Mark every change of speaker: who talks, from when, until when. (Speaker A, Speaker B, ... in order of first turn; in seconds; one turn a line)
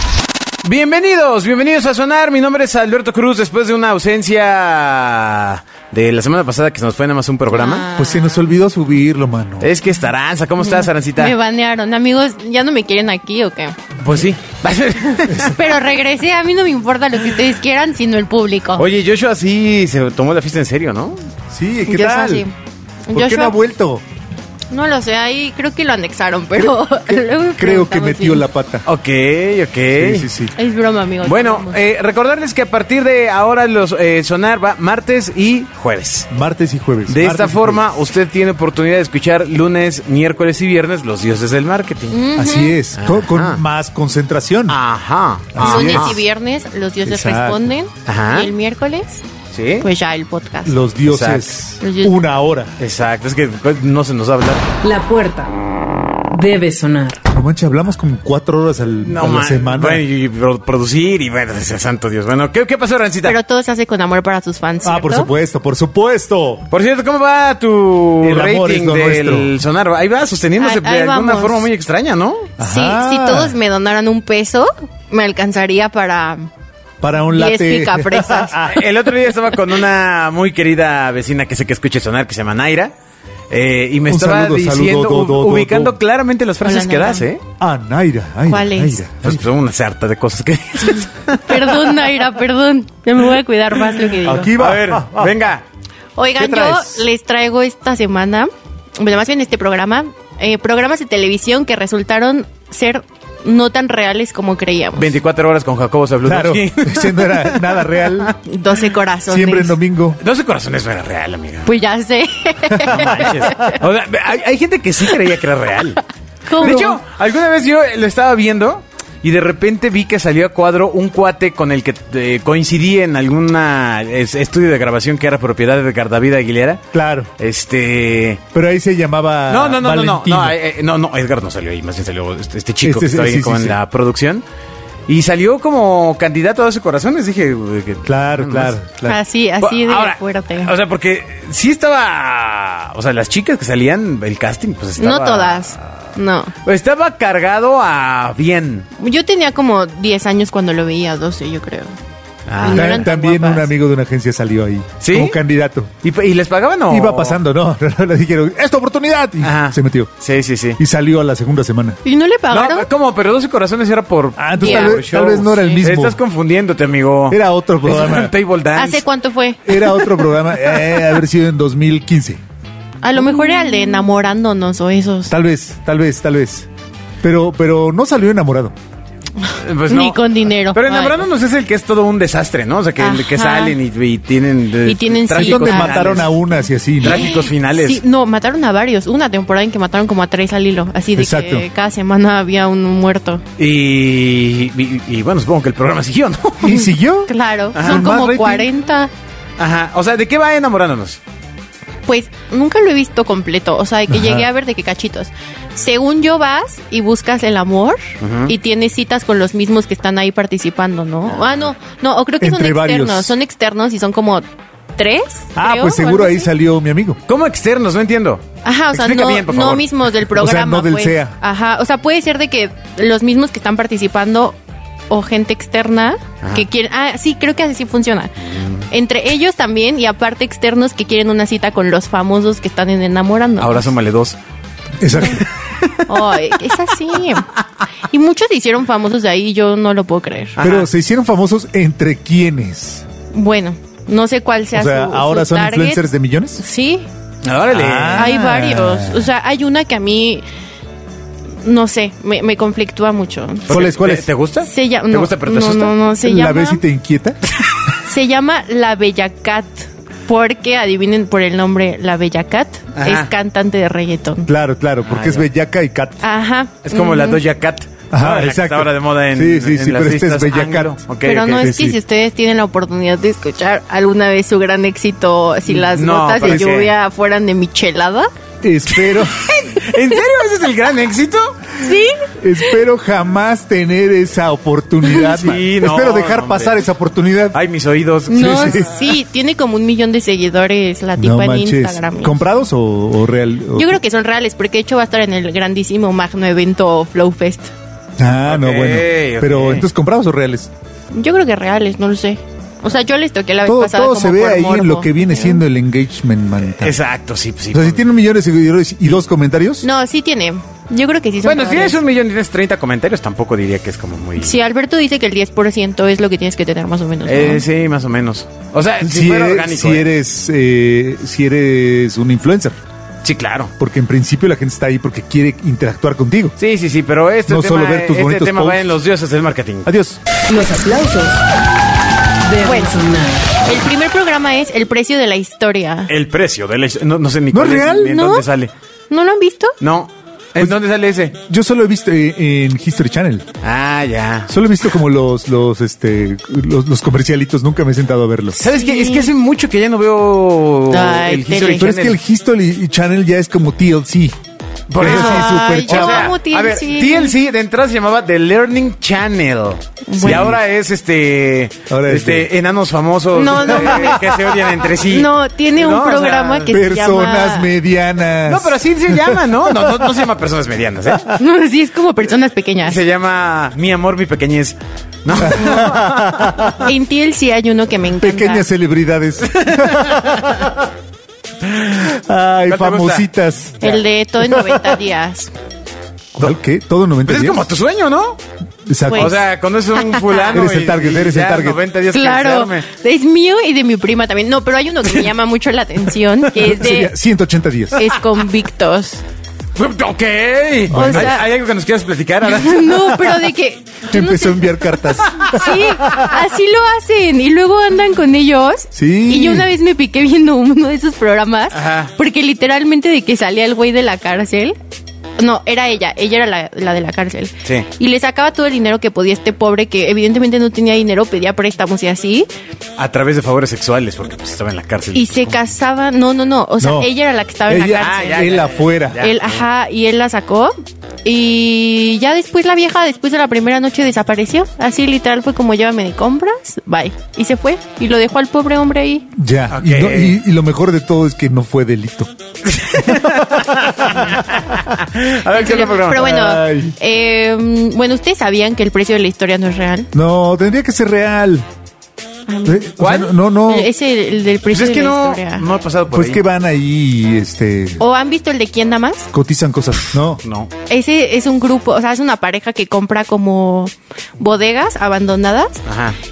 Speaker A: 0.6-7.9
Speaker B: 7.5-8.5
Speaker C: 8.0-9.7
Speaker A: 9.6-11.3
Speaker B: 10.6-13.8
Speaker A: 14.0-15.6
Speaker B: 15.4-18.9
Speaker A: 18.8-21.2
Speaker C: 21.5-22.5
Speaker B: 21.9-22.5
Speaker B: 23.1-23.6
Speaker C: 23.1-24.0
Speaker B: 24.7-28.5
Speaker C: 26.6-28.9
Speaker A: 28.9-30.3
Speaker C: 29.9-30.5
Speaker B: 30.6-31.8
Speaker A: 31.2-36.3
Speaker C: 36.3-37.9
Speaker A: 37.1-42.2
Speaker B: 42.1-42.8
Speaker C: 42.4-44.8
Speaker A: 43.0-43.6
Speaker A: 44.7-46.2
Speaker C: 45.5-46.2
Speaker B: 45.6-49.2
Speaker C: 47.0-47.7
Speaker A: 48.1-48.5
Speaker A: 49.5-49.9
Speaker B: 49.8-50.8
Speaker C: 50.7-52.7
Speaker A: 51.0-51.6
Speaker B: 51.8-52.2
Speaker A: 52.8-54.6
Speaker D: 54.8-55.5
Speaker D: 56.3-57.2
Speaker C: 57.3-60.0
Speaker A: 59.0-63.4
Speaker B: 63.2-65.3
Speaker C: 64.8-66.7
Speaker A: 66.7-72.5
Speaker C: 68.2-69.5
Speaker B: 70.6-71.7
Speaker C: 72.6-73.6
Speaker B: 72.6-76.5
Speaker C: 77.0-78.9
Speaker B: 77.2-78.8
Speaker A: 78.7-82.9
Speaker A: 83.5-87.4
Speaker C: 84.1-86.0
Speaker B: 86.6-87.2
Speaker C: 87.6-89.4
Speaker B: 88.5-89.0
Speaker A: 89.2-92.0
Speaker B: 91.5-94.5
Speaker C: 94.2-95.3
Speaker A: 94.5-95.6
Speaker B: 96.2-105.2
Speaker C: 96.4-96.8
Speaker A: 96.4-96.8
Speaker A: 105.0-107.8
Speaker C: 106.2-108.3
Speaker B: 108.4-109.8
Speaker C: 109.3-110.2
Speaker A: 110.2-111.7
Speaker B: 111.7-113.7
Speaker C: 112.7-113.8
Speaker A: 112.9-116.0
Speaker B: 116.5-116.9
Speaker A: 116.6-126.8
Speaker C: 116.6-117.0
Speaker C: 126.9-127.3
Speaker A: 127.4-128.4
Speaker C: 128.5-130.6
Speaker A: 129.5-134.4
Speaker C: 132.8-133.8
Speaker A: 135.1-138.8
Speaker C: 138.1-139.2
Speaker B: 139.1-140.7
Speaker A: 139.6-146.1
Speaker B: 145.0-146.5
Speaker A: 146.6-148.9
Speaker B: 149.0-151.9
Speaker A: 152.5-153.1
Speaker B: 152.6-153.7
Speaker C: 152.7-155.9
Speaker A: 155.0-155.4
Speaker A: 156.0-157.4
Speaker C: 156.9-160.1
Speaker A: 159.4-160.8
Speaker C: 160.8-162.0
Speaker B: 162.0-162.9
Speaker A: 162.5-169.0
Speaker C: 164.4-166.2
Speaker B: 164.6-165.1
Speaker C: 167.3-168.3
Speaker B: 168.8-170.6
Speaker C: 169.7-172.4
Speaker B: 173.0-175.3
Speaker C: 175.3-176.7
Speaker C: 177.2-178.7
Speaker B: 179.4-181.2
Speaker A: 179.6-186.3
Speaker B: 183.0-183.8
Speaker B: 184.8-186.3
Speaker C: 185.4-187.3
Speaker A: 187.0-188.0
Speaker B: 187.0-193.4
Speaker C: 191.2-191.7
Speaker A: 193.6-196.9
Speaker C: 196.6-198.7
Speaker B: 197.3-199.1
Speaker A: 197.8-198.1
Speaker A: 199.6-201.2
Speaker B: 202.1-214.4
Speaker C: 204.1-204.5
Speaker A: 208.2-208.5
Speaker C: 212.4-213.4
Speaker B: 215.0-216.5
Speaker C: 215.6-217.2
Speaker A: 217.3-219.9
Speaker B: 218.6-224.6
Speaker C: 220.3-221.3
Speaker B: 225.1-233.9
Speaker A: 228.4-228.9
Speaker A: 233.6-234.4
Speaker C: 235.0-235.4
Speaker A: 235.2-236.2
Speaker B: 236.1-237.5
Speaker B: 238.1-240.6
Speaker A: 240.6-240.9
Speaker C: 240.6-243.1
Speaker B: 243.3-246.1
Speaker C: 244.7-246.6
Speaker B: 246.6-247.1
Speaker A: 247.4-248.4
Speaker C: 247.7-249.3
Speaker B: 248.2-250.4
Speaker B: 251.6-253.8
Speaker A: 253.7-255.9
Speaker C: 253.7-254.3
Speaker B: 254.6-256.8
Speaker C: 256.2-257.4
Speaker B: 258.0-264.5
Speaker A: 263.0-263.3
Speaker C: 264.5-266.2
Speaker A: 265.1-265.4
Speaker B: 266.2-267.4
Speaker A: 266.9-271.7
Speaker C: 268.1-271.0
Speaker B: 271.2-278.3
Speaker C: 271.5-272.0
Speaker A: 275.7-276.9
Speaker C: 276.4-276.7
Speaker C: 278.6-279.4
Speaker B: 278.9-280.2
Speaker A: 279.6-281.6
Speaker B: 281.8-282.8
Speaker C: 282.4-287.6
Speaker A: 285.2-286.8
Speaker A: 287.5-288.8
Speaker B: 288.3-292.6
Speaker C: 288.3-289.0
Speaker C: 291.2-294.0
Speaker B: 293.7-297.7
Speaker C: 298.2-300.7
Speaker A: 298.5-299.9
Speaker B: 301.1-305.6
Speaker C: 303.6-307.0
Speaker A: 306.7-308.1
Speaker C: 307.7-309.9
Speaker B: 309.8-312.0
Speaker A: 311.4-314.6
Speaker B: 314.4-317.6
Speaker A: 317.3-320.1
Speaker C: 319.0-322.8
Speaker A: 323.2-323.7
Speaker C: 323.8-326.6
Speaker A: 326.6-329.9
Speaker C: 327.5-328.9
Speaker C: 329.9-330.2
Speaker D: 330.5-331.4
Speaker D: 332.4-333.5
Speaker B: 332.6-333.0
Speaker B: 333.6-336.1
Speaker A: 336.1-338.7
Speaker C: 337.5-338.2
Speaker B: 337.9-338.5
Speaker B: 339.1-339.8
Speaker A: 339.8-341.4
Speaker C: 341.5-343.5
Speaker A: 343.6-344.5
Speaker C: 344.5-348.6
Speaker B: 348.6-349.3
Speaker A: 348.6-352.2
Speaker B: 350.9-351.9
Speaker C: 351.8-354.4
Speaker A: 354.9-366.8
Speaker C: 355.0-356.4
Speaker B: 355.0-357.4
Speaker B: 360.1-360.5
Speaker C: 360.2-360.6
Speaker C: 361.9-362.5
Speaker B: 363.3-364.3
Speaker C: 363.8-364.4
Speaker B: 365.0-367.7
Speaker C: 366.7-370.3
Speaker A: 368.5-371.3
Speaker C: 371.1-371.4
Speaker B: 371.3-373.0
Speaker A: 372.8-376.6
Speaker C: 375.4-376.9
Speaker B: 376.7-378.6
Speaker C: 378.2-380.9
Speaker A: 379.4-380.5
Speaker A: 381.6-382.1
Speaker C: 382.0-384.9
Speaker A: 382.7-383.3
Speaker B: 383.8-385.5
Speaker C: 386.4-387.7
Speaker A: 387.3-388.4
Speaker C: 388.9-389.3
Speaker B: 389.1-389.4
Speaker A: 389.1-392.9
Speaker B: 389.9-390.6
Speaker C: 390.5-391.8
Speaker B: 392.1-397.1
Speaker C: 396.6-398.0
Speaker B: 397.9-399.2
Speaker A: 399.8-403.4
Speaker C: 400.9-401.4
Speaker B: 400.9-401.5
Speaker B: 402.4-414.8
Speaker C: 404.1-406.3
Speaker A: 405.2-405.6
Speaker C: 408.9-409.7
Speaker A: 411.7-412.1
Speaker B: 415.4-422.5
Speaker A: 423.0-425.6
Speaker B: 425.1-428.7
Speaker C: 426.8-427.1
Speaker C: 427.7-429.2
Speaker A: 428.0-429.6
Speaker B: 429.2-439.3
Speaker C: 439.4-442.3
Speaker A: 439.7-440.4
Speaker A: 442.6-446.4
Speaker C: 443.0-444.4
Speaker B: 445.5-450.1
Speaker C: 446.2-446.9
Speaker C: 450.1-451.7
Speaker B: 452.5-453.0
Speaker C: 452.7-453.9
Speaker A: 453.0-453.3
Speaker B: 453.6-455.7
Speaker A: 454.7-456.4
Speaker C: 456.1-458.0
Speaker B: 458.0-459.3
Speaker C: 459.3-460.4
Speaker A: 460.4-460.7
Speaker B: 460.9-465.8
Speaker A: 465.9-466.2